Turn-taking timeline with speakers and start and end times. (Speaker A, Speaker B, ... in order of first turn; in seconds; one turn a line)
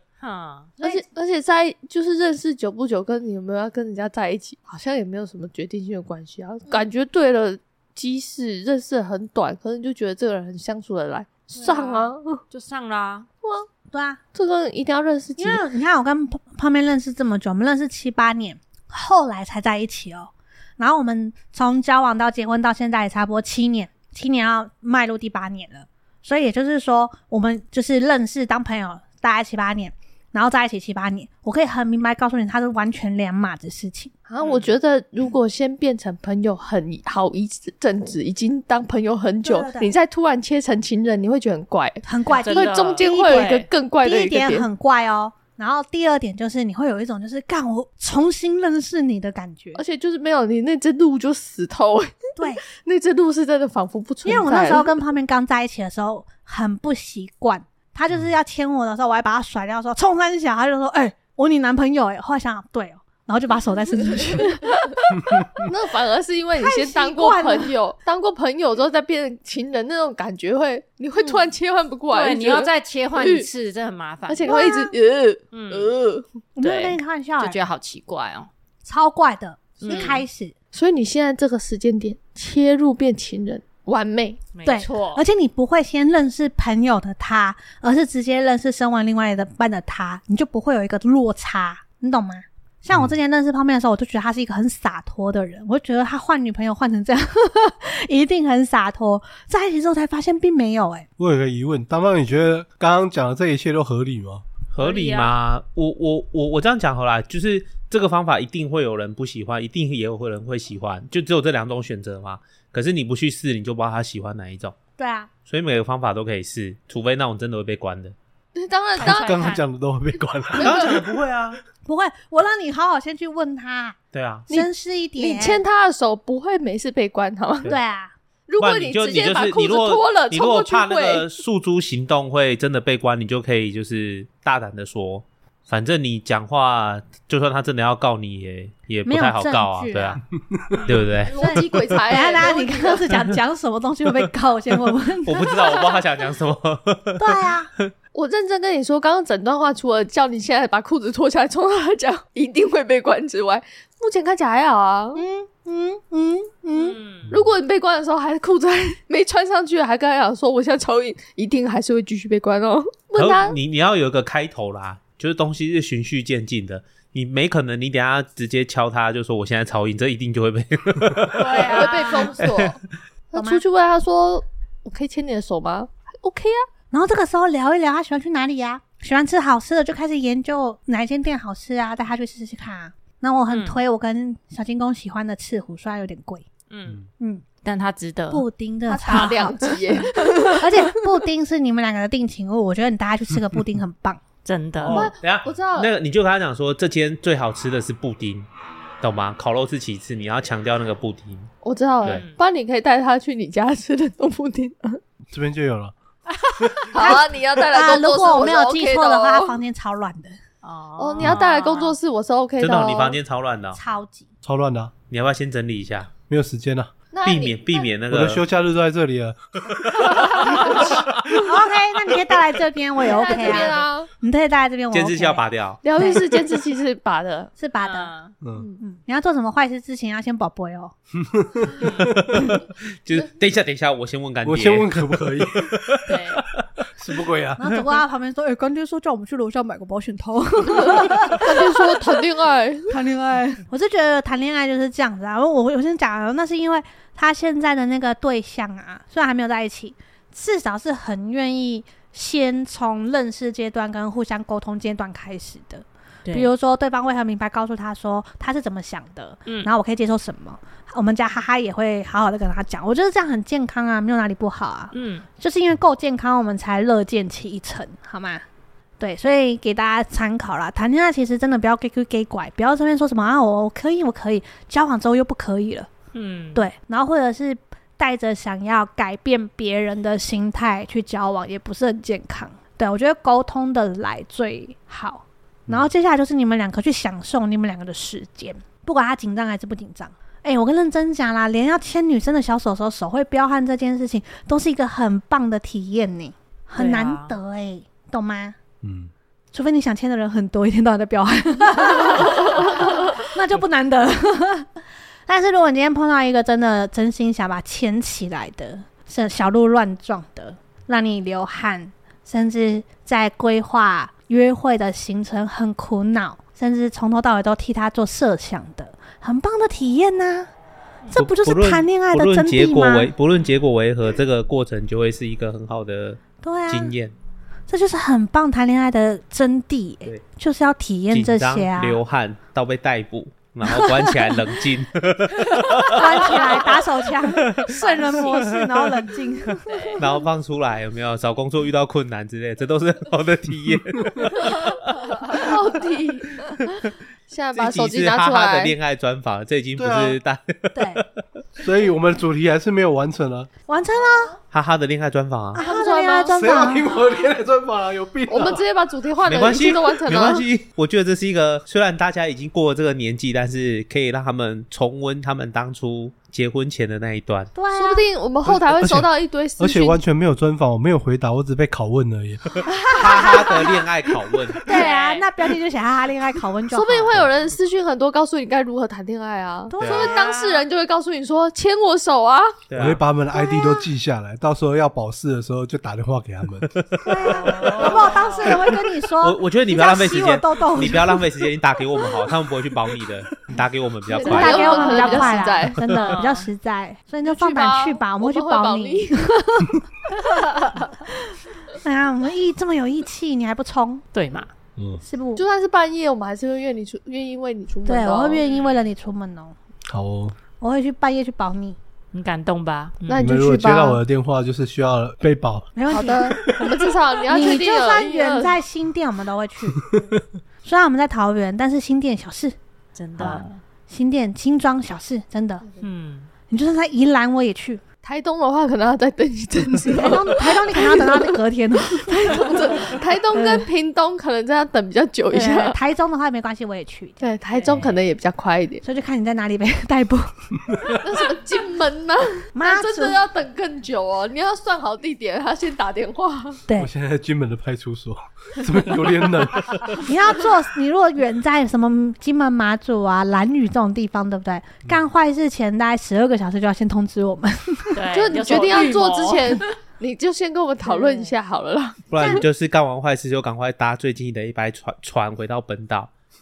Speaker A: 0.2-0.7
Speaker B: 0.8-12.4
Speaker A: 11.6-13.3
Speaker C: 13.9-14.2
Speaker B: 14.3-15.6
Speaker C: 15.4-34.1
Speaker B: 34.3-44.7
Speaker A: 34.4-34.7
Speaker C: 39.4-39.9
Speaker C: 42.0-49.8
Speaker A: 42.4-43.7
Speaker B: 49.7-55.0
Speaker C: 52.4-52.6
Speaker C: 54.2-64.7
Speaker B: 64.4-64.7
Speaker D: 65.3-65.7
Speaker B: 65.6-73.5
Speaker C: 66.6-67.7
Speaker C: 71.2-71.5
Speaker A: 72.1-74.7
Speaker B: 74.3-76.2
Speaker C: 74.4-74.9
Speaker A: 75.5-75.9
Speaker C: 76.5-77.6
Speaker A: 76.6-78.5
Speaker C: 78.8-80.5
Speaker A: 79.8-80.2
Speaker B: 79.8-80.2
Speaker B: 80.7-84.4
Speaker A: 84.5-85.2
Speaker C: 84.6-101.1
Speaker D: 101.2-104.4
Speaker E: 104.7-114.8
Speaker A: 104.8-105.3
Speaker C: 115.0-115.3
Speaker E: 115.5-118.1
Speaker B: 118.5-119.5
Speaker A: 119.0-119.6
Speaker D: 119.0-121.0
Speaker B: 120.5-121.0
Speaker E: 120.6-121.6
Speaker C: 121.8-124.0
Speaker E: 124.1-124.5
Speaker C: 124.5-125.6
Speaker B: 124.5-127.7
Speaker C: 127.7-128.1
Speaker B: 128.5-131.3
Speaker E: 128.6-140.2
Speaker C: 139.0-140.2
Speaker D: 140.5-140.8
Speaker A: 140.8-141.1
Speaker E: 140.8-141.3
Speaker B: 141.2-143.1
Speaker C: 141.3-145.6
Speaker E: 145.2-147.9
Speaker C: 147.2-147.7
Speaker B: 148.1-155.2
Speaker C: 155.1-157.0
Speaker A: 156.7-157.3
Speaker B: 157.3-163.6
Speaker E: 163.1-171.4
Speaker A: 171.4-172.4
Speaker C: 171.4-172.4
Speaker B: 171.5-172.8
Speaker B: 173.3-176.7
Speaker C: 173.3-173.6
Speaker C: 176.9-186.5
Speaker A: 183.5-183.8
Speaker A: 186.7-187.0
Speaker C: 187.2-187.4
Speaker A: 187.6-188.4
Speaker C: 188.3-189.8
Speaker B: 188.9-190.9
Speaker A: 189.1-189.5
Speaker C: 190.4-194.2
Speaker A: 194.4-195.1
Speaker E: 194.8-198.5
Speaker B: 194.8-195.9
Speaker E: 199.0-201.5
Speaker B: 201.6-205.0
Speaker A: 202.0-202.3
Speaker D: 205.3-205.9
Speaker D: 206.6-206.9
Speaker B: 206.9-209.6
Speaker C: 206.9-210.4
Speaker A: 210.6-211.9
Speaker B: 211.0-213.2
Speaker E: 212.6-213.8
Speaker C: 213.7-214.3
Speaker D: 214.4-214.9
Speaker E: 215.1-216.1
Speaker D: 216.3-216.9
Speaker B: 217.1-217.9
Speaker E: 217.2-218.4
Speaker D: 218.1-219.4
Speaker E: 219.8-220.3
Speaker D: 219.9-220.2
Speaker B: 220.2-220.9
Speaker C: 221.4-226.4
Speaker B: 223.0-224.1
Speaker E: 224.9-225.8
Speaker B: 225.8-227.5
Speaker C: 227.6-228.1
Speaker A: 227.8-228.3
Speaker D: 228.4-228.7
Speaker C: 228.8-230.9
Speaker D: 231.2-232.5
Speaker E: 232.0-236.6
Speaker D: 234.4-236.2
Speaker A: 236.1-236.4
Speaker D: 236.8-237.8
Speaker C: 237.6-242.2
Speaker B: 240.8-243.0
Speaker C: 242.9-268.4
Speaker A: 264.9-265.2
Speaker C: 269.0-275.9
Speaker A: 276.1-276.6
Speaker C: 276.5-298.6
Speaker A: 296.8-297.4
Speaker D: 298.8-299.1
Speaker C: 299.5-304.7
Speaker C: 305.3-320.5
Speaker C: 321.1-323.1
Speaker E: 321.1-327.1
Speaker C: 326.4-326.9
Speaker C: 327.7-332.0
Speaker E: 331.1-338.4
Speaker C: 333.6-334.4
Speaker C: 335.9-340.0
Speaker A: 339.7-340.0
Speaker E: 340.0-345.5
Speaker B: 345.2-348.7
Speaker E: 347.5-351.0
Speaker D: 349.8-350.2
Speaker C: 350.7-351.0
Speaker D: 351.6-353.5
Speaker C: 353.7-354.4
Speaker E: 354.5-355.6
Speaker C: 355.5-356.9
Speaker B: 355.6-356.4
Speaker D: 356.3-358.6
Speaker B: 358.3-360.4
Speaker E: 359.2-367.5
Speaker C: 367.5-368.0
Speaker B: 367.7-370.0
Speaker D: 368.4-372.6
Speaker E: 372.9-374.6
Speaker B: 373.0-373.5
Speaker C: 373.0-373.8
Speaker C: 374.6-377.2
Speaker A: 374.6-375.2
Speaker B: 376.7-382.5
Speaker C: 379.7-380.6
Speaker E: 379.8-380.1
Speaker E: 382.7-383.0
Speaker D: 382.7-386.8
Speaker C: 383.3-383.9
Speaker E: 386.6-388.5
Speaker C: 387.0-391.2
Speaker A: 387.3-388.6
Speaker E: 389.2-395.3
Speaker C: 394.2-399.8
Speaker A: 394.2-396.5
Speaker B: 394.2-395.8
Speaker B: 397.2-399.1
Speaker A: 400.2-400.8
Speaker C: 401.7-404.1
Speaker A: 404.1-404.5
Speaker D: 404.8-405.0
Speaker C: 405.0-405.4
Speaker B: 405.4-408.4
Speaker C: 407.8-409.6
Speaker A: 408.5-408.8
Speaker D: 409.9-410.4
Speaker C: 410.6-411.8
Speaker A: 412.1-413.2
Speaker B: 413.1-414.0
Speaker D: 413.2-415.7
Speaker C: 415.7-416.6
Speaker B: 415.9-418.6
Speaker D: 416.4-416.8
Speaker C: 417.3-419.9
Speaker D: 419.8-420.2
Speaker C: 420.6-422.5
Speaker A: 422.9-423.6
Speaker C: 423.2-425.6
Speaker A: 425.8-426.3
Speaker C: 426.5-427.8
Speaker B: 428.0-435.8
Speaker C: 429.8-432.6
Speaker C: 433.3-433.7
Speaker C: 435.3-437.2
Speaker B: 437.2-438.8
Speaker A: 437.5-438.0
Speaker C: 438.8-440.5
Speaker D: 440.7-441.0
Speaker B: 441.0-446.6
Speaker C: 442.5-443.2
Speaker D: 446.8-450.1
Speaker C: 450.0-458.0
Speaker A: 457.9-459.7
Speaker B: 458.1-462.4
Speaker A: 460.9-461.3
Speaker E: 462.1-466.1
Speaker C: 462.2-462.4